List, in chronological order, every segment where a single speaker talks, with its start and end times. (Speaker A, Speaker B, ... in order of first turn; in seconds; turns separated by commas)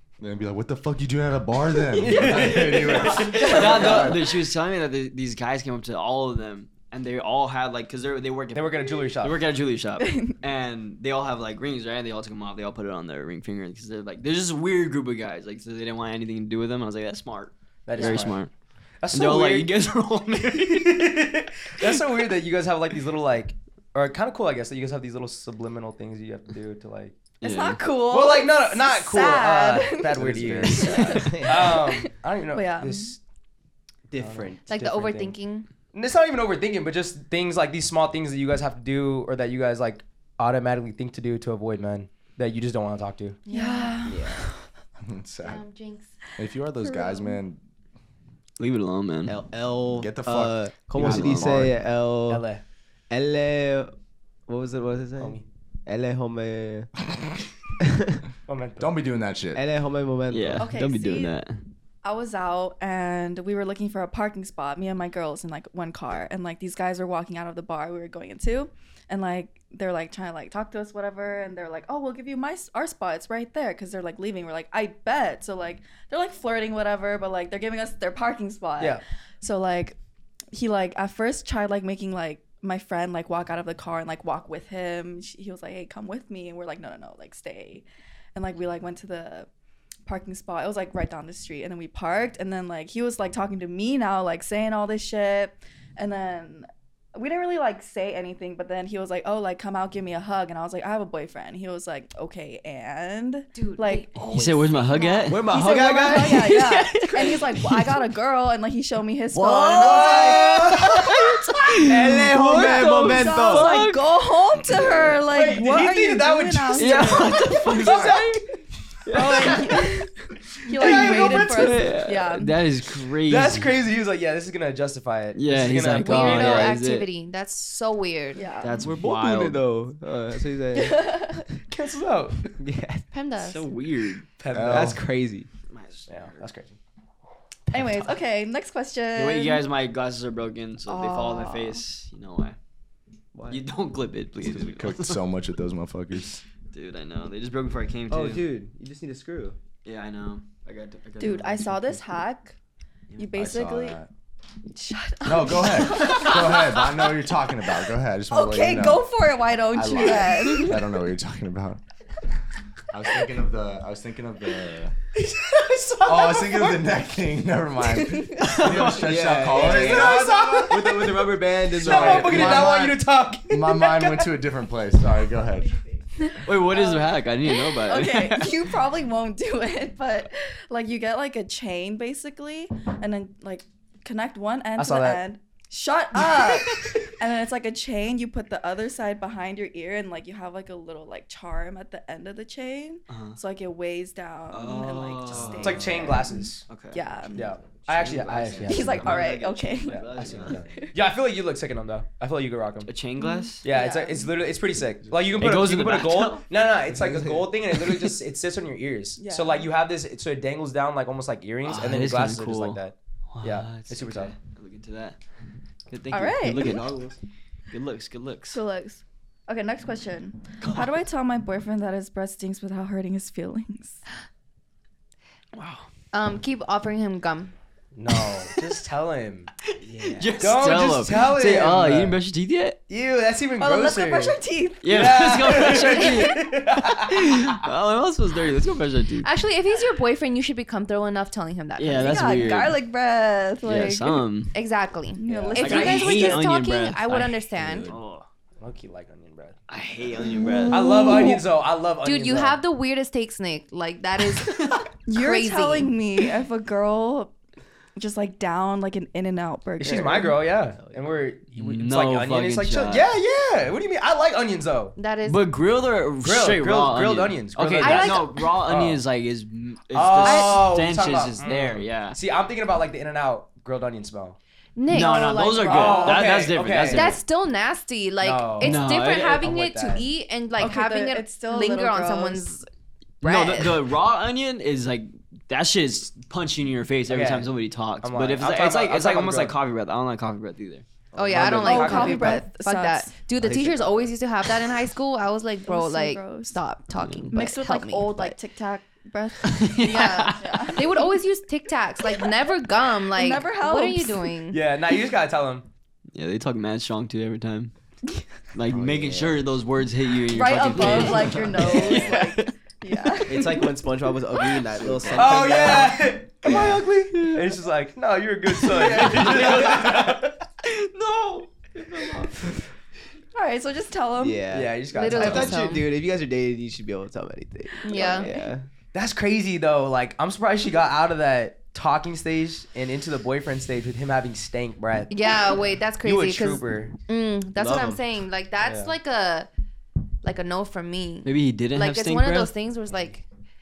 Speaker A: 0.2-4.4, Speaker B: 1.9-18.5, Speaker C: 2.0-4.1, Speaker D: 3.5-3.8, Speaker C: 8.5-9.4, Speaker D: 10.0-10.3, Speaker C: 17.9-18.4, Speaker C: 19.0-19.7, Speaker B: 19.1-21.2, Speaker C: 20.8-27.1, Speaker D: 27.4-33.1, Speaker B: 27.4-27.8, Speaker C: 28.1-33.2, Speaker A: 30.2-31.3, Speaker E: 30.8-31.7, Speaker E: 34.1-34.9, Speaker C: 34.2-35.4, Speaker F: 34.7-35.7, Speaker C: 35.9-43.4, Speaker F: 43.5-44.1, Speaker D: 43.5-44.6, Speaker E: 44.1-44.4, Speaker A: 45.0-45.6, Speaker F: 45.4-46.1, Speaker A: 46.4-47.6, Speaker D: 46.8-47.4, Speaker B: 48.6-49.4, Speaker E: 49.3-52.4, Speaker A: 49.9-51.8, Speaker B: 51.0-51.6, Speaker C: 52.3-52.6, Speaker E: 53.1-53.9, Speaker E: 54.5-56.9, Speaker C: 55.2-55.5, Speaker A: 57.1-57.4, Speaker E: 57.8-58.2, Speaker C: 58.5-58.9, Speaker A: 58.8-59.6, Speaker E: 59.5-60.8, Speaker B: 60.3-61.6, Speaker D: 60.6-61.3, Speaker D: 62.0-80.0, Speaker D: 80.5-89.5, Speaker D: 90.1-104.3, Speaker F: 103.5-105.3, Speaker B: 104.2-108.0, Speaker E: 105.3-106.4, Speaker D: 105.4-110.6, Speaker E: 109.4-110.8, Speaker B: 109.8-115.1, Speaker C: 109.8-110.6, Speaker E: 111.8-113.8, Speaker D: 112.7-118.2, Speaker C: 115.3-118.2, Speaker B: 116.8-118.4, Speaker A: 117.8-118.3, Speaker B: 119.1-120.0, Speaker D: 119.1-120.1, Speaker D: 120.7-122.5, Speaker B: 120.8-123.7, Speaker C: 120.8-121.9, Speaker C: 123.3-126.8, Speaker B: 125.3-127.1, Speaker F: 125.9-128.6, Speaker D: 128.3-128.9, Speaker B: 128.6-129.7, Speaker E: 128.8-131.1, Speaker D: 130.8-131.5, Speaker C: 131.7-132.5, Speaker E: 132.5-133.1, Speaker F: 133.1-133.7, Speaker B: 133.4-134.2, Speaker C: 134.4-135.0, Speaker A: 134.5-135.0, Speaker E: 134.6-135.5, Speaker B: 135.7-136.5, Speaker C: 136.1-136.7, Speaker D: 137.7-139.7, Speaker B: 139.1-142.6, Speaker D: 140.9-141.8, Speaker E: 143.3-143.7, Speaker B: 143.5-145.2, Speaker A: 144.4-146.4, Speaker B: 146.7-148.4, Speaker E: 148.1-149.6, Speaker B: 149.8-152.0, Speaker D: 151.2-152.6, Speaker D: 153.2-154.0, Speaker A: 153.3-154.1, Speaker D: 154.7-157.2, Speaker A: 155.2-159.1, Speaker D: 158.3-160.8, Speaker A: 159.7-161.8, Speaker A: 162.9-164.9, Speaker C: 165.2-166.9, Speaker A: 166.1-171.0, Speaker D: 167.9-168.7, Speaker B: 168.4-169.4, Speaker E: 168.9-172.8, Speaker C: 169.6-174.3, Speaker D: 170.2-170.7, Speaker A: 171.8-175.8, Speaker D: 176.2-197.5, Speaker B: 176.4-178.8, Speaker C: 184.8-185.2, Speaker B: 193.1-193.4, Speaker B: 194.5-196.1, Speaker C: 195.6-196.7, Speaker B: 196.7-197.0, Speaker C: 197.3-199.1, Speaker E: 197.9-199.2, Speaker B: 198.0-200.7, Speaker D: 198.7-200.9, Speaker C: 199.8-202.9, Speaker E: 200.1-200.7, Speaker B: 202.8-203.6, Speaker D: 203.2-204.4, Speaker C: 203.6-214.3, Speaker B: 205.4-206.4, Speaker E: 206.9-207.5, Speaker B: 207.8-208.1, Speaker D: 209.2-209.7, Speaker B: 211.7-212.8, Speaker B: 213.3-215.2, Speaker B: 215.9-217.1, Speaker D: 216.1-216.8, Speaker E: 216.6-217.2, Speaker B: 217.7-218.6, Speaker D: 218.5-224.0, Speaker B: 220.6-220.9, Speaker B: 225.6-225.8, Speaker F: 226.1-227.6, Speaker C: 227.9-229.5, Speaker B: 229.7-232.8, Speaker E: 229.8-230.3, Speaker C: 230.4-232.2, Speaker C: 232.9-237.5, Speaker D: 233.6-235.0, Speaker B: 234.8-239.3, Speaker D: 235.7-236.4, Speaker F: 239.2-242.6, Speaker B: 241.8-242.8, Speaker D: 241.9-244.2, Speaker B: 243.6-244.5, Speaker F: 244.5-247.9, Speaker D: 245.2-246.5, Speaker C: 245.3-245.8, Speaker B: 245.6-248.2, Speaker C: 248.6-249.6, Speaker B: 249.7-250.8, Speaker D: 250.5-251.4, Speaker C: 250.7-252.6, Speaker F: 252.1-255.9, Speaker B: 254.3-254.9, Speaker D: 255.1-257.3, Speaker D: 258.0-260.4, Speaker C: 259.8-265.0, Speaker B: 261.6-263.1, Speaker F: 265.0-265.5, Speaker B: 265.3-272.2, Speaker C: 266.2-269.0, Speaker F: 267.8-268.4, Speaker C: 269.9-274.4, Speaker F: 270.2-270.7, Speaker F: 274.8-276.1, Speaker B: 274.9-277.2, Speaker D: 274.9-276.2, Speaker C: 275.7-277.2, Speaker F: 276.9-282.7, Speaker C: 278.2-280.1, Speaker B: 278.6-279.4, Speaker D: 280.6-282.6, Speaker B: 283.2-290.9, Speaker D: 283.2-283.7, Speaker C: 287.1-289.6, Speaker E: 291.1-291.8, Speaker F: 291.2-298.4, Speaker C: 291.3-292.4, Speaker D: 291.5-293.2, Speaker E: 293.4-294.1, Speaker D: 295.7-296.6, Speaker B: 297.0-297.3, Speaker D: 297.3-301.2, Speaker B: 299.4-300.9, Speaker F: 299.8-304.6, Speaker D: 303.1-304.3, Speaker C: 304.5-305.7, Speaker B: 306.1-307.7, Speaker B: 308.5-312.5, Speaker A: 308.7-309.4, Speaker D: 310.3-313.8, Speaker E: 310.9-312.1, Speaker B: 313.1-313.7, Speaker E: 313.3-316.8, Speaker B: 314.4-315.9, Speaker C: 315.1-320.3, Speaker B: 316.5-317.4, Speaker B: 318.5-322.6, Speaker E: 318.7-320.0, Speaker D: 323.4-324.4, Speaker E: 324.2-328.7, Speaker C: 324.5-325.6, Speaker F: 324.9-325.9, Speaker F: 327.8-328.3, Speaker D: 327.9-328.5, Speaker C: 328.9-336.9, Speaker F: 335.1-339.5, Speaker E: 337.6-338.1, Speaker C: 338.6-338.9, Speaker F: 340.2-343.2, Speaker B: 341.2-342.5